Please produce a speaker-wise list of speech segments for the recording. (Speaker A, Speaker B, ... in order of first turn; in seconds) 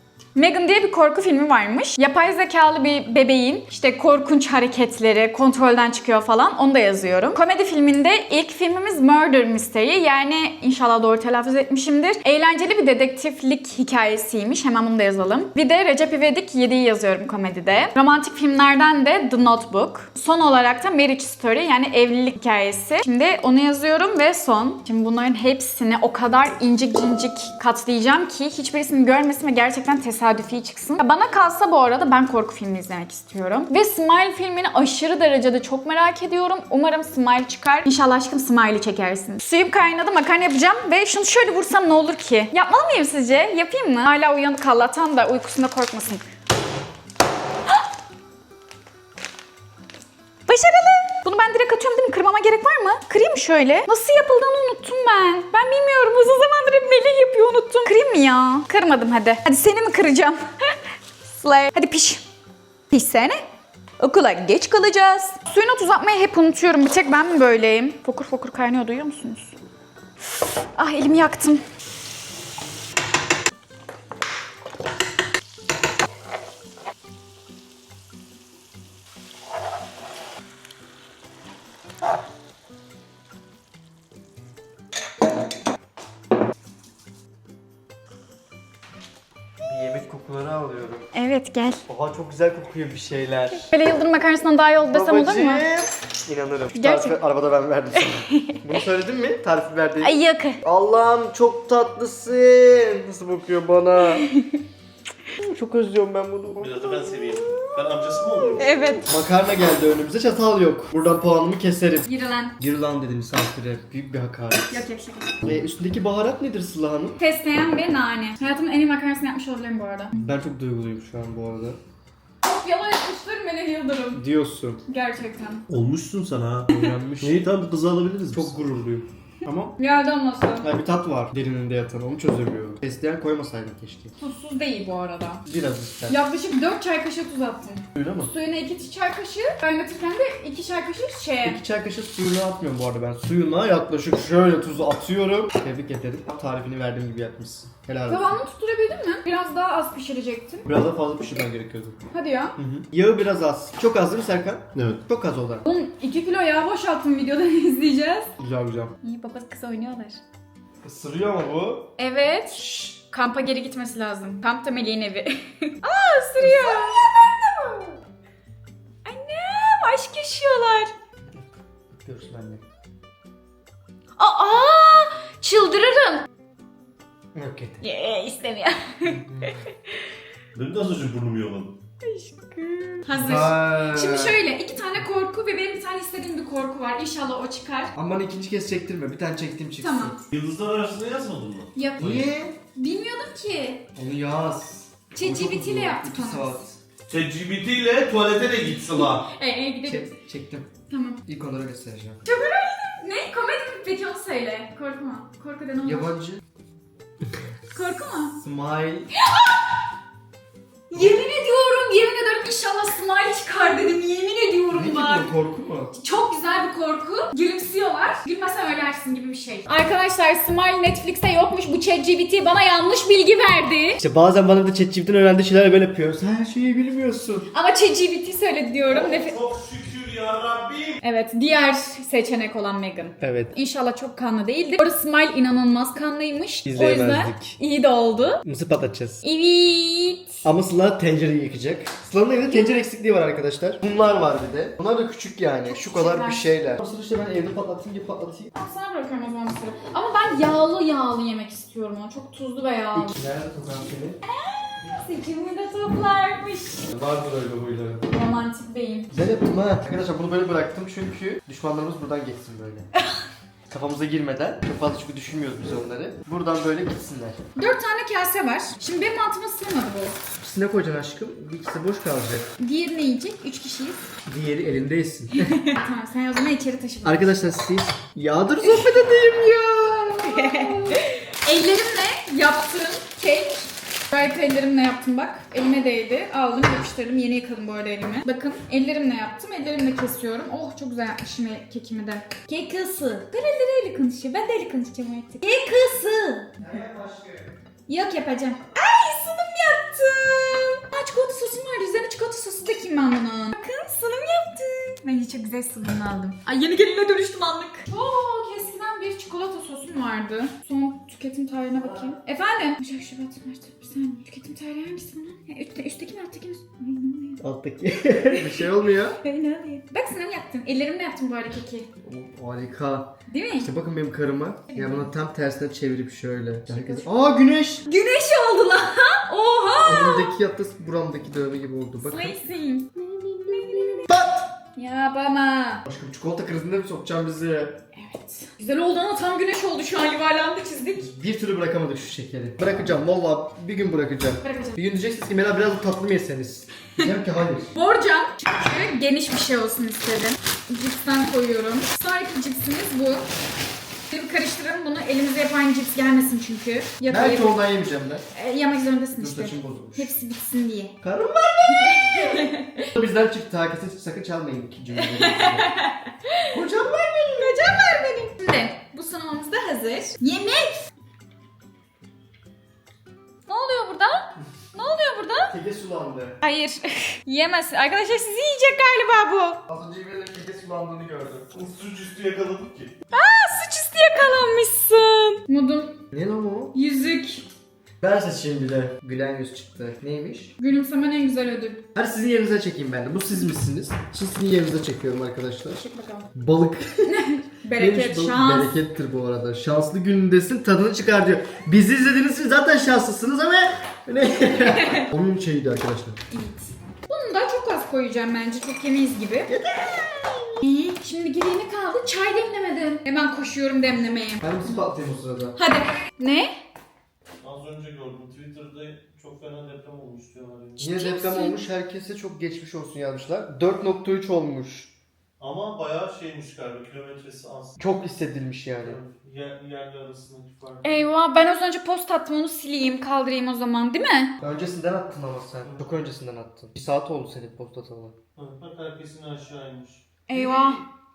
Speaker A: 0.3-46.2, 50.5-62.2, 62.9-63.4, 64.0-69.6, 70.8-71.6, 91.1-91.8, 93.7-95.7, 96.7-97.2, 98.0-98.8, 100.0-100.6, 104.2-104.6, 108.6-109.1, 112.1-112.5, 114.7-115.4, 117.2-120.2, 122.4-124.2, 124.9-125.7, 129.8-130.7, 134.2-135.4, 136.1-141.6, 148.1-150.7, 152.1-152.6, 155.7-158.3, 159.0-160.2, 162.0-168.0, 169.1-170.9, 174.2-176.3, 177.8-179.9, 182.0-187.9, 189.8-190.2, 191.8-192.1, 192.7-193.8, 195.1-196.6, 198.9-200.2, 200.9-201.2, 202.2-206.1, 207.7-208.4, 209.2-209.8, 210.9-215.3, 215.9-224.0, 227.5-229.4, 231.0-238.4, 239.2-240.4, 242.5-242.8, 245.7-246.4, 248.6-253.1, 254.3-256.9, 258.1-259.1, 263.0-263.2, 267.6-270.2, 272.6-274.1, 275.4-277.3, 278.6-279.0, 280.2-296.5, 297.9-317.4, 318.3-321.9, 323.3-323.7, 324.7-325.1, 326.7-327.1, 327.9-330.3, 332.0-334.1, 334.7-335.9, 337.9-341.1, 344.4-344.8, 347.7-353.3, 354.1-357.6, 358.3-360.9, 361.7-362.9, 365.0-366.6, 367.3-370.9, 373.5-375.5, 376.4-379.6, 383.1-386.0, 386.7-387.5, 390.6-391.8, 395.8-396.3, 397.1-398.8, 404.5-405.1, 406.3-409.5, 410.6-414.9, 415.6-416.5, 420.8-421.6, 430.8-434.3, 440.3-440.8
Speaker B: 89.6-91.1, 91.9-93.7, 94.8-104.2, 105.4-106.8, 109.1-114.9, 115.4-117.2, 120.2-121.8, 124.1-124.8, 126.7-127.5, 128.3-129.7, 130.6-134.1, 135.5-136.2, 137.9-138.3, 141.4-148.3, 150.7-152.0, 152.9-155.7, 158.4-158.9, 160.8-161.9, 162.5-163.0, 166.4-167.0, 171.9-172.6, 177.3-177.8, 179.0-179.6, 183.1-184.4, 187.9-190.2, 192.0-192.6, 194.0-196.8, 199.8-200.7, 201.3-202.2, 205.8-206.4, 208.3-209.1, 214.7-215.9, 224.0-227.5, 233.2-233.6, 236.7-237.6, 238.4-239.2, 240.4-248.5, 252.9-254.2, 256.9-258.1, 259.1-262.9, 263.7-267.4, 270.4-272.5, 274.2-275.6, 277.0-281.0, 296.6-297.6, 311.7-312.1, 317.4-319.2, 322.0-327.9, 329.8-332.4, 333.6-334.5, 335.9-337.8, 341.0-347.7, 357.1-358.2, 359.2-360.1, 361.0-365.7, 366.5-367.9, 375.5-376.4, 379.7-381.5, 386.1-386.8, 388.0-390.5, 391.9-397.2, 397.7-406.2, 409.5-410.6, 414.4-415.6, 420.8-424.9, 427.8-429.0, 434.4-438.2, 440.3-440.6
Speaker C: 106.6-108.8, 125.7-128.6, 152.6-152.8, 154.8-155.0, 180.6-181.7, 190.3-192.3, 197.1-199.3, 228.9-231.0, 381.5-382.9, 417.4-420.9, 425.4-427.8, 428.8-431.1, 438.4-440.0